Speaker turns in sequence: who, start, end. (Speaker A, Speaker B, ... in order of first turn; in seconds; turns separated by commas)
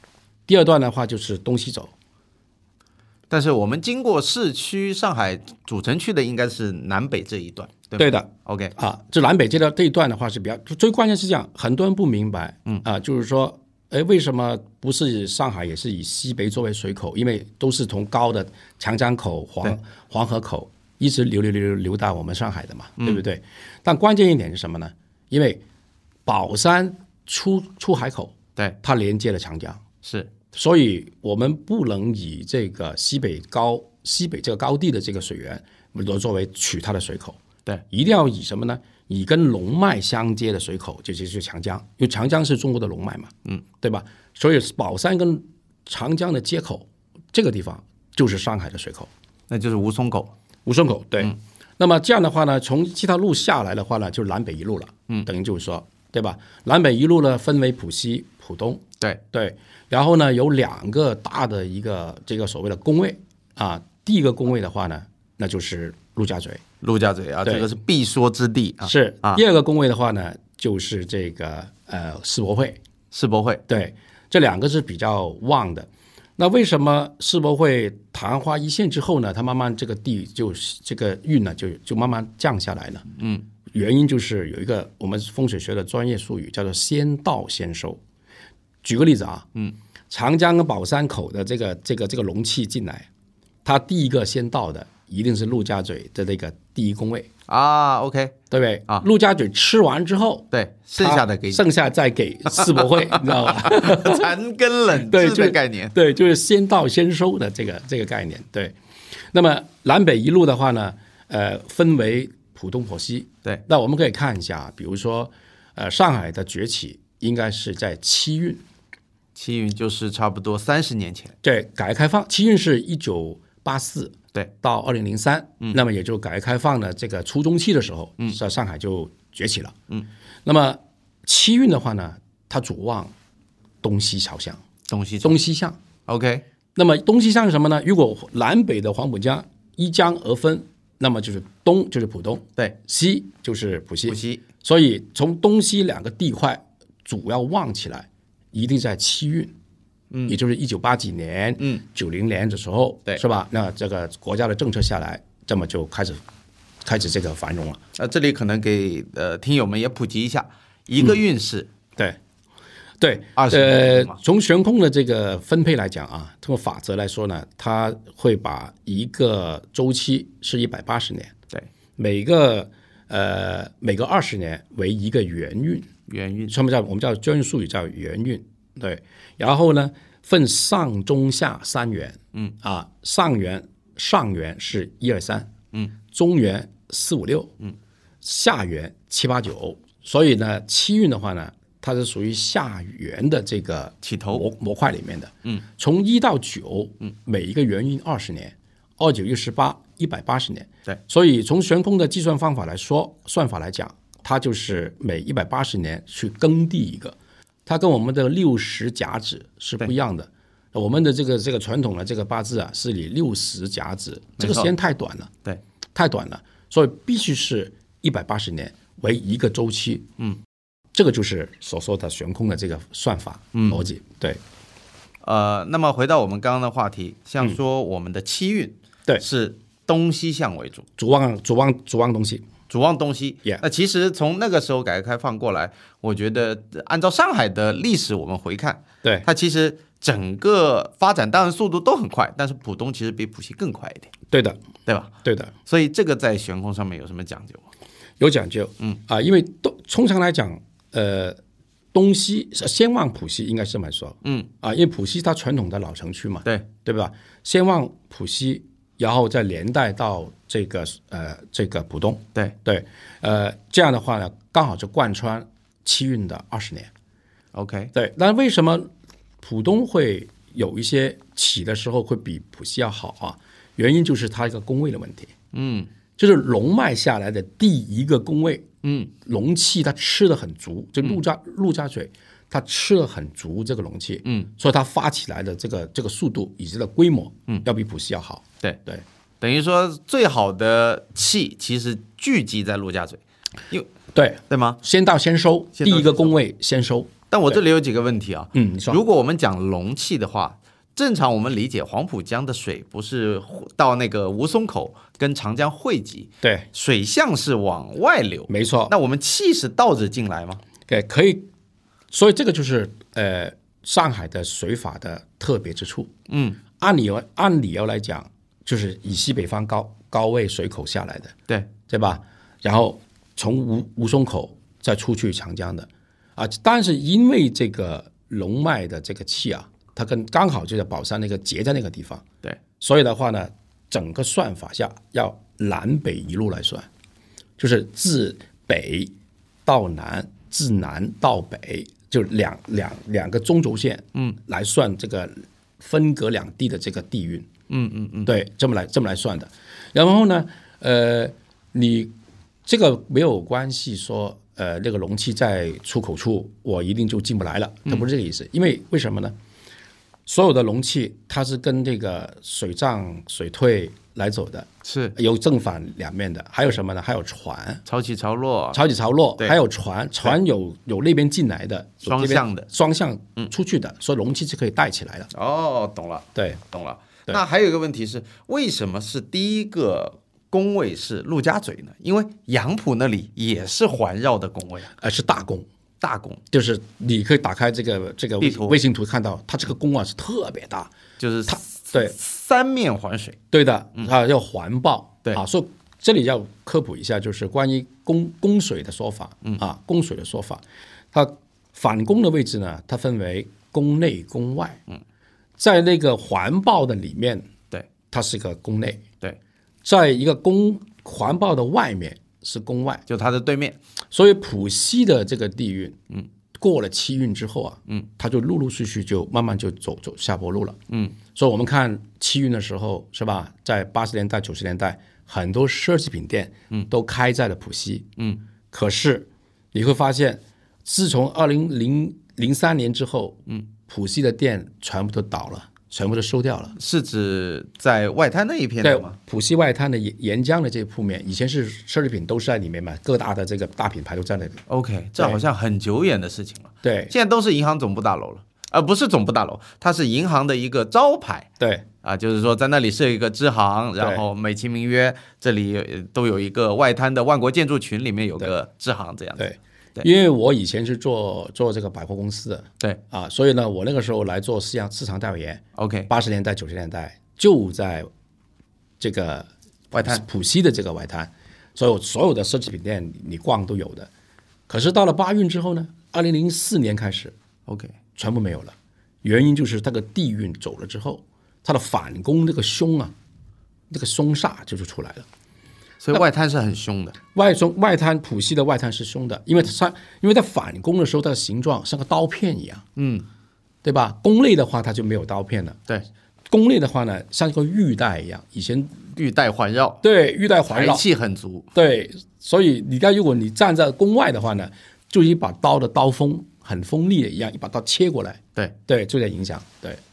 Speaker A: 0.5-1.9, Speaker B: 3.3-8.8, Speaker A: 8.0-25.6, Speaker A: 26.3-29.8, Speaker B: 30.0-30.3, Speaker A: 30.5-37.4, Speaker A: 37.9-49.1, Speaker B: 49.5-50.3, Speaker A: 50.7-66.6, Speaker B: 66.8-69.4, Speaker A: 68.8-72.8, Speaker B: 73.1-73.6, Speaker A: 73.7-83.1, Speaker B: 83.2-83.4, Speaker A: 83.7-88.0, Speaker A: 88.8-89.5, Speaker A: 90.1-93.1, Speaker A: 93.7-97.3, Speaker B: 97.5-98.4, Speaker A: 98.5-104.3, Speaker B: 100.5-101.7, Speaker B: 102.5-106.0, Speaker A: 104.9-108.8, Speaker A: 109.3-118.6, Speaker B: 119.4-121.3, Speaker A: 121.4-129.8, Speaker A: 130.4-133.1, Speaker A: 133.8-134.6, Speaker B: 134.9-135.4, Speaker A: 135.2-135.8, Speaker B: 136.1-136.4, Speaker A: 136.8-149.5, Speaker B: 144.1-144.4, Speaker B: 150.1-150.4, Speaker A: 150.3-156.2, Speaker A: 156.8-157.8, Speaker B: 158.0-161.7, Speaker A: 163.0-171.3, Speaker B: 163.4-164.2, Speaker A: 172.0-175.9, Speaker B: 176.1-176.5, Speaker A: 176.5-185.5, Speaker A: 186.1-187.5, Speaker A: 188.2-215.3, Speaker B: 194.0-194.4, Speaker B: 214.4-214.7, Speaker A: 215.9-220.1, Speaker A: 220.9-224.4, Speaker B: 223.5-223.8, Speaker B: 225.2-230.9, Speaker A: 231.0-232.5, Speaker B: 232.7-244.1, Speaker A: 244.3-244.6, Speaker B: 244.9-245.1, Speaker A: 245.2-245.5, Speaker B: 245.7-247.7, Speaker A: 248.2-251.4, Speaker A: 251.9-266.9, Speaker B: 254.2-254.5, Speaker B: 267.5-267.9, Speaker A: 267.9-268.9, Speaker A: 269.4-275.3, Speaker B: 275.5-275.9, Speaker A: 276.2-278.7, Speaker B: 278.8-279.1, Speaker A: 279.2-289.0, Speaker B: 284.2-284.5, Speaker B: 289.4-293.9, Speaker A: 294.1-297.6, Speaker B: 294.5-294.8, Speaker B: 295.8-296.3, Speaker B: 297.3-310.6, Speaker A: 298.5-299.0, Speaker A: 306.4-306.7, Speaker A: 308.5-308.9, Speaker A: 310.9-311.5, Speaker A: 312.1-316.1, Speaker B: 316.3-316.6, Speaker A: 316.8-321.3, Speaker A: 321.9-332.2, Speaker A: 332.8-336.9, Speaker A: 337.6-339.1, Speaker A: 339.7-347.5, Speaker B: 347.7-348.3, Speaker A: 348.3-352.1, Speaker A: 352.7-359.3, Speaker A: 360.3-367.8, Speaker B: 364.9-365.1, Speaker B: 367.9-368.8, Speaker A: 368.7-375.3, Speaker B: 372.1-372.7, Speaker B: 375.3-384.9, Speaker A: 376.4-376.6, Speaker A: 385.0-385.7, Speaker B: 386.0-386.4, Speaker A: 386.5-390.9, Speaker B: 388.4-388.8, Speaker B: 391.2-393.4, Speaker A: 391.5-392.1, Speaker A: 393.5-404.8, Speaker A: 405.6-407.5, Speaker A: 408.1-409.0, Speaker A: 409.8-413.0, Speaker B: 413.1-413.8, Speaker A: 414.1-416.0, Speaker A: 416.6-420.8, Speaker B: 420.9-421.2, Speaker A: 421.3-428.1, Speaker A: 428.7-436.8, Speaker B: 436.8-439.2, Speaker A: 438.8-444.6, Speaker B: 444.7-451.5, Speaker A: 446.8-447.1, Speaker A: 451.6-451.9, Speaker B: 452.0-460.1, Speaker A: 459.4-468.1, Speaker B: 465.8-466.1, Speaker A: 469.0-474.1, Speaker B: 469.9-470.2, Speaker A: 474.7-477.3, Speaker B: 477.7-478.0, Speaker A: 478.2-483.1, Speaker A: 483.9-485.3, Speaker B: 486.0-487.2, Speaker A: 487.3-492.8, Speaker B: 493.0-493.3, Speaker A: 493.8-495.8, Speaker A: 496.5-499.0, Speaker B: 499.2-500.0, Speaker A: 500.0-501.0, Speaker B: 500.7-501.7, Speaker A: 501.7-510.0